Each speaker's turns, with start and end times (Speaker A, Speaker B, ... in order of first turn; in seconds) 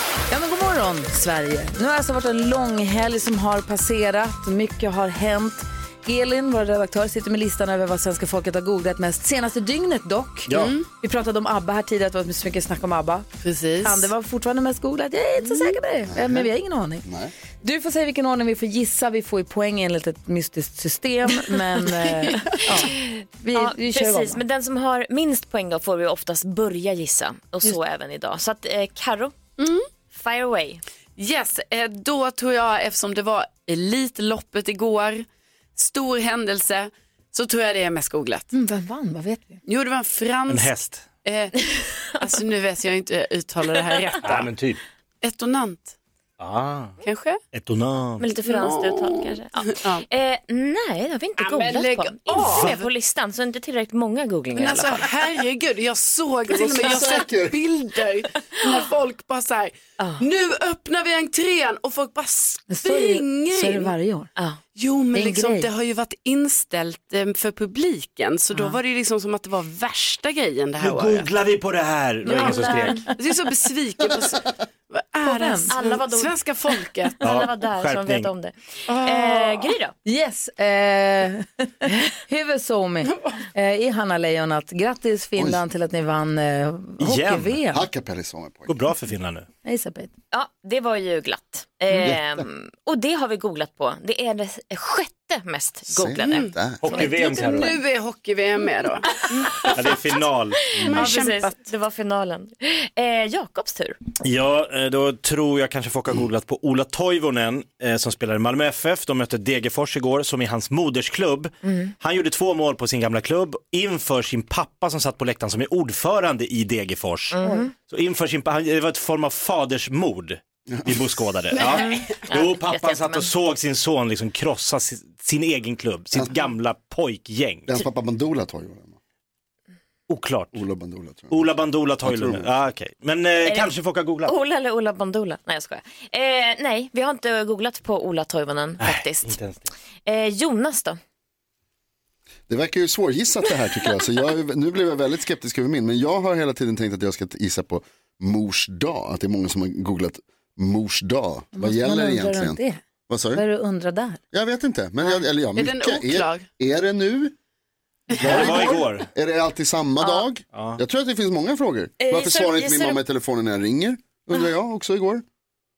Speaker A: 0.3-13.3, 13.8-17.0, 17.6-24.4, 38.5-39.6, 62.7-64.3, 65.1-65.7, 72.2-73.1, 75.2-75.7, 80.0-87.8, 89.6-90.1, 151.5-152.8, 153.3-154.2
Speaker B: 10.5-10.8, 13.4-14.1, 22.2-22.7, 29.6-29.9, 31.2-38.5, 39.6-41.6, 42.2-44.5, 45.2-45.9, 47.0-47.4, 48.5-50.0, 51.4-52.9, 54.5-63.9, 64.7-71.3, 72.2-77.2, 78.9-79.8, 96.2-100.1, 100.8-101.7, 121.5-122.2, 155.1-156.4, 158.1-159.0
Speaker C: 16.1-16.5, 17.0-17.3, 56.5-57.6, 87.7-88.8, 92.0-92.5, 95.9-97.0, 120.7-121.1, 127.7-129.0, 130.5-132.5, 142.5-153.4, 154.3-157.3, 158.2-165.2
Speaker D: 22.8-29.3, 30.1-30.8, 48.2-55.1, 60.0-60.2, 75.7-79.9, 90.3-96.5, 100.7-104.0, 111.6-111.9, 117.3-117.7, 121.6-123.3, 133.4-133.7, 134.2-139.3, 140.1-141.0, 162.0-163.0
Speaker E: 40.5-41.1, 44.2-44.8, 46.4-46.9, 47.5-48.2, 70.8-73.1, 77.2-78.3, 87.0-87.6, 88.7-89.5, 96.8-97.8, 99.7-100.7, 104.2-127.7, 130.1-130.6, 131.3-134.3, 138.8-139.7, 158.2-159.1, 160.5-160.8